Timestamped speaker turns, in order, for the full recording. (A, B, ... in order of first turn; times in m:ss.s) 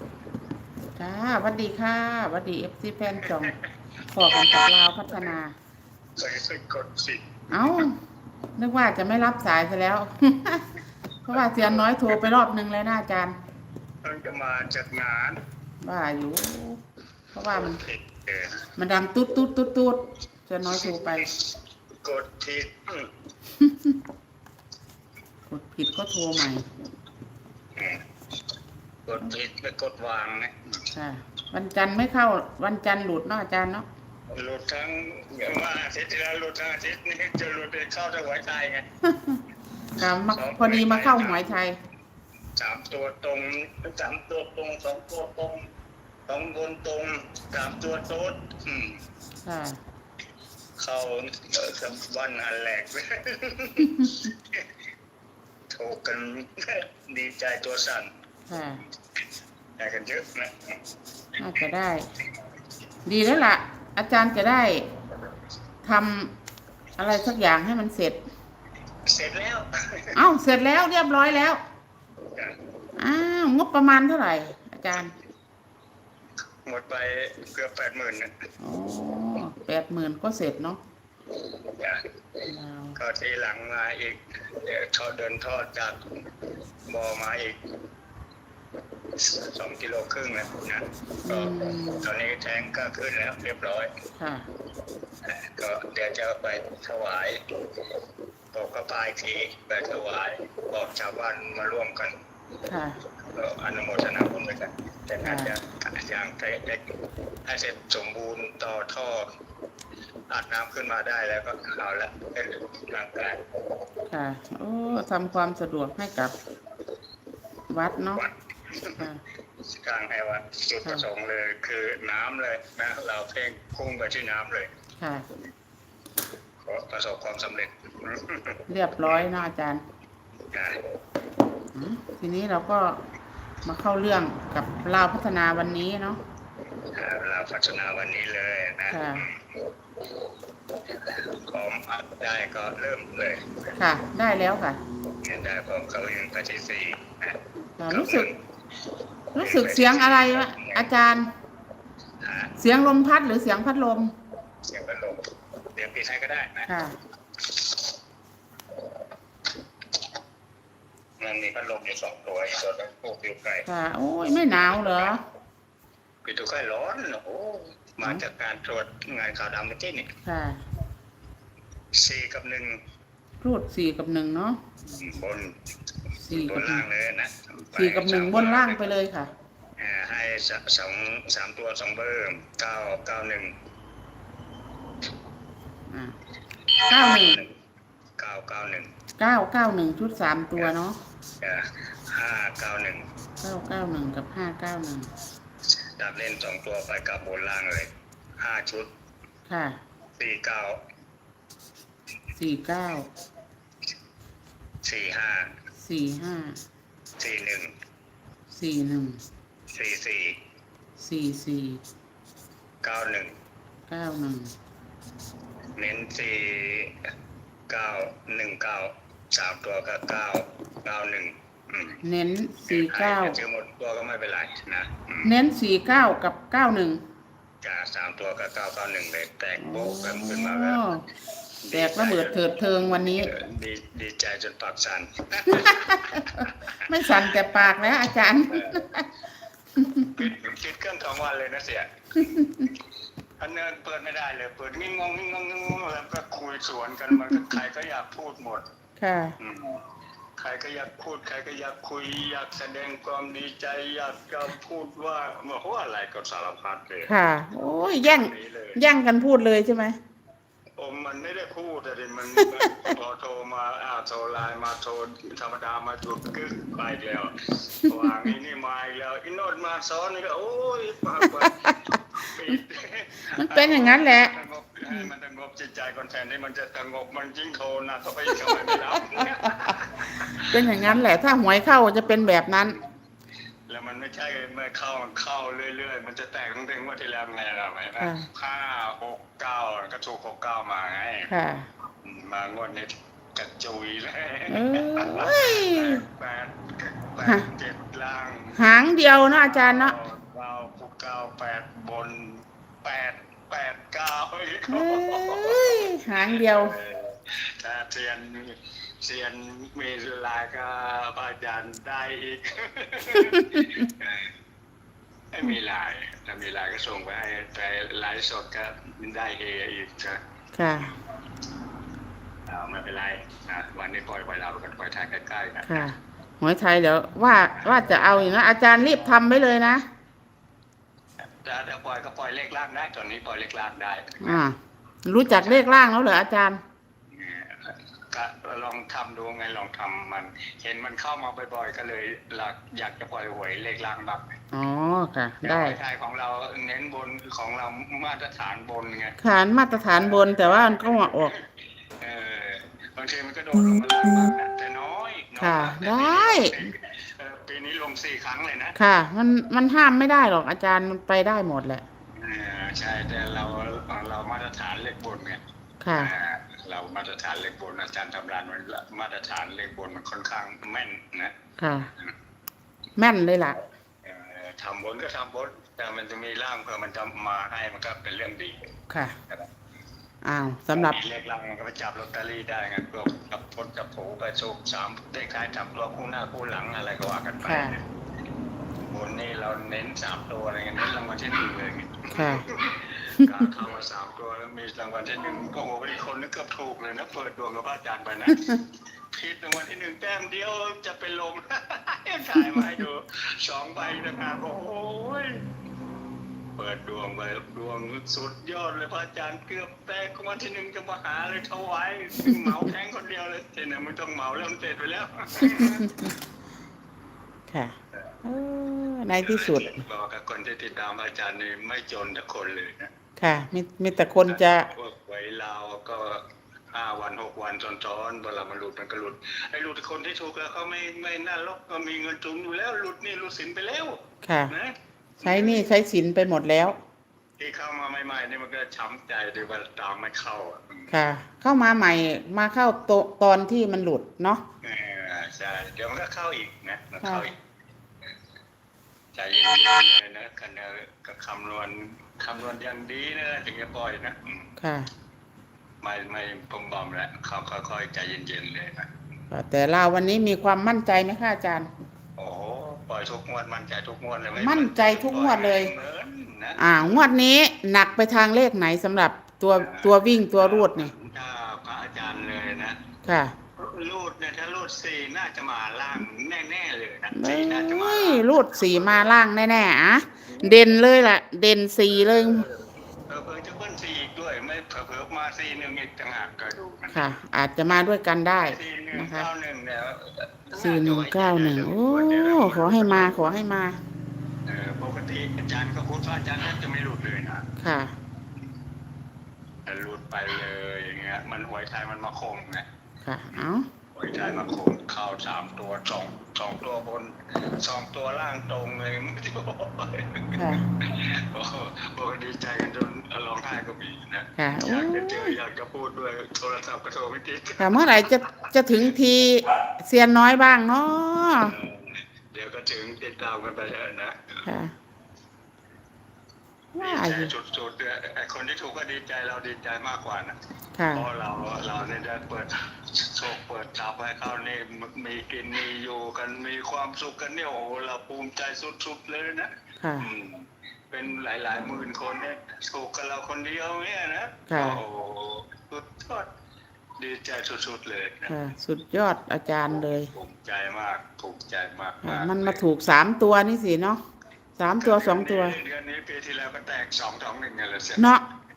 0:01.0-0:03.5 A
0:03.2-0:03.5 B
0:04.1-0:05.5 A
0:06.2-0:07.9 B
0:07.5-0:08.0 A
0:08.6-0:10.6 A
0:11.2-0:13.4 A
0:11.3-0:11.8 B
0:14.0-0:15.4 B
0:15.8-0:16.8 A
0:17.3-0:17.8 A
0:17.5-0:18.6 B
0:18.8-0:21.3 A
0:22.0-0:23.1 B
0:23.6-0:23.9 A
0:25.5-0:26.7 A
0:29.0-0:30.8 B
0:30.9-0:33.8 A
0:34.3-0:38.9 B
0:39.0-0:39.4 A
0:40.0-0:41.8 A
0:40.3-0:41.6 B
0:42.5-0:45.7 B
0:46.3-0:49.0 B
0:49.4-0:49.8 A
0:50.8-0:54.6 B
0:55.7-0:58.1 B
0:58.5-0:58.8 A
0:59.8-1:00.8 B
1:01.4-1:02.0 A
1:03.0-1:04.9 A
1:05.8-1:06.3 A
1:07.0-1:08.2 A
1:09.0-1:10.1 B
1:10.1-1:11.6 A
1:13.0-1:15.1 A
1:16.6-1:18.3 B
1:18.6-1:20.8 A
1:21.7-1:22.0 B
1:22.5-1:23.0 A
1:23.0-1:26.0 B
1:26.8-1:27.6 B
1:29.1-1:33.9 B
1:31.2-1:32.1 A
1:34.2-1:34.5 A
1:35.2-1:37.4 B
1:38.5-1:42.1 B
1:42.7-1:43.0 A
1:43.2-1:46.8 B
1:45.2-1:45.5 A
1:47.4-1:49.3 B
1:50.3-1:53.5 B
1:54.1-1:56.3 A
1:57.7-1:58.2 A
1:58.2-1:59.0 B
1:59.7-2:04.7 B
2:05.0-2:05.2 A
2:06.6-2:08.6 B
2:08.7-2:09.8 A
2:10.5-2:10.8 B
2:11.7-2:13.0 A
2:13.6-2:16.2 A
2:16.9-2:19.6 B
2:18.9-2:19.2 A
2:20.9-2:23.6 B
2:23.8-2:24.8 A
2:25.1-2:27.4 B
2:27.8-2:28.3 A
2:27.9-2:28.4 B
2:29.3-2:30.9 B
2:29.3-2:31.3 A
2:32.2-2:32.5 B
2:32.6-2:34.1 A
2:34.6-2:36.7 B
2:36.7-2:36.9 A
2:41.2-2:43.7 B
2:43.6-2:45.2 A
2:46.2-2:50.1 B
2:50.2-2:50.6 A
2:51.9-2:52.8 B
2:53.4-2:54.6 A
2:54.8-2:55.5 B
2:56.2-2:56.8 A
2:56.3-2:58.9 B
2:57.7-2:59.3 A
2:59.8-3:03.5 B
3:05.9-3:06.2 A
3:06.9-3:07.4 A
3:06.9-3:07.5 B
3:08.2-3:08.9 B
3:09.2-3:11.0 A
3:11.4-3:13.0 B
3:13.4-3:15.1 A
3:15.7-3:18.9 B
3:19.5-3:19.8 A
3:20.2-3:20.8 B
3:22.4-3:23.1 A
3:24.8-3:25.5 B
3:25.8-3:26.6 A
3:27.2-3:27.7 B
3:28.5-3:29.2 A
3:29.7-3:30.4 B
3:31.0-3:31.8 A
3:32.8-3:33.3 B
3:33.9-3:34.5 A
3:35.8-3:37.0 B
3:37.7-3:42.0 B
3:42.0-3:43.4 A
3:42.7-3:45.3 B
3:45.2-3:47.0 A
3:47.6-3:50.8 B
3:49.6-3:51.0 A
3:51.6-3:57.3 B
3:51.7-3:53.3 A
3:55.5-3:56.2 A
3:56.8-3:59.1 A
3:58.5-3:58.8 B
3:59.8-4:00.1 A
4:00.1-4:02.5 B
4:03.4-4:08.6 B
4:09.0-4:09.3 A
4:09.4-4:09.8 B
4:10.4-4:17.1 B
4:17.1-4:20.0 A
4:17.8-4:18.8 B
4:20.8-4:41.0 B
4:33.4-4:34.3 A
4:40.5-4:42.8 A
4:43.7-4:51.3 B
4:48.0-4:48.3 A
4:51.3-4:51.7 A
4:52.0-4:58.7 B
4:54.5-4:56.0 A
4:58.5-5:00.0 A
4:59.3-5:14.3 B
5:04.7-5:06.8 A
5:15.3-5:20.2 B
5:20.5-5:20.9 A
5:22.5-5:25.9 B
5:25.6-5:29.8 A
5:31.2-5:34.4 B
5:34.2-5:36.6 A
5:35.2-5:35.8 B
5:37.1-5:44.3 B
5:44.5-5:45.8 A
5:45.4-5:49.2 B
5:49.2-5:51.3 A
5:50.0-5:51.5 B
5:52.0-5:58.8 B
5:55.4-5:56.7 A
5:58.8-6:01.8 A
6:02.1-6:05.4 B
6:05.8-6:06.1 A
6:06.0-6:11.3 B
6:11.6-6:11.9 A
6:13.0-6:13.6 A
6:14.0-6:18.7 B
6:18.9-6:19.1 A
6:20.2-6:21.0 A
6:20.7-6:27.8 B
6:27.4-6:27.7 A
6:28.8-6:45.4 B
6:32.1-6:32.4 A
6:46.6-6:56.0 B
6:57.5-6:59.8 A
6:59.2-7:02.9 B
7:03.2-7:04.7 A
7:04.2-7:15.6 B
7:14.2-7:14.5 A
7:15.2-7:16.8 A
7:17.4-7:20.9 B
7:20.9-7:24.4 A
7:24.6-7:27.4 B
7:29.1-7:34.5 B
7:34.6-7:34.9 A
7:35.8-7:38.9 B
7:39.3-7:41.7 A
7:42.2-7:46.6 B
7:44.4-7:45.7 A
7:46.6-7:50.9 A
7:49.5-7:52.8 B
7:53.0-7:53.3 A
7:53.6-7:59.1 B
7:57.1-8:02.5 A
8:00.3-8:00.6 B
8:01.9-8:07.1 B
8:06.9-8:09.3 A
8:08.4-8:13.1 B
8:10.5-8:13.8 A
8:14.4-8:17.4 B
8:17.6-8:17.9 A
8:19.6-8:22.6 B
8:23.0-8:23.7 A
8:23.9-8:37.9 B
8:30.3-8:30.6 A
8:34.4-8:35.3 A
8:37.6-8:41.6 A
8:41.4-8:44.4 B
8:44.4-8:44.7 A
8:46.7-8:47.3 A
8:46.8-8:50.4 B
8:50.8-8:51.0 A
8:50.9-9:06.3 B
8:59.8-9:00.1 A
9:04.5-9:04.8 A
9:07.0-9:08.4 B
9:08.3-9:10.1 A
9:10.1-9:12.6 B
9:12.0-9:14.0 A
9:14.6-9:15.6 A
9:14.8-9:18.2 B
9:18.0-9:18.2 A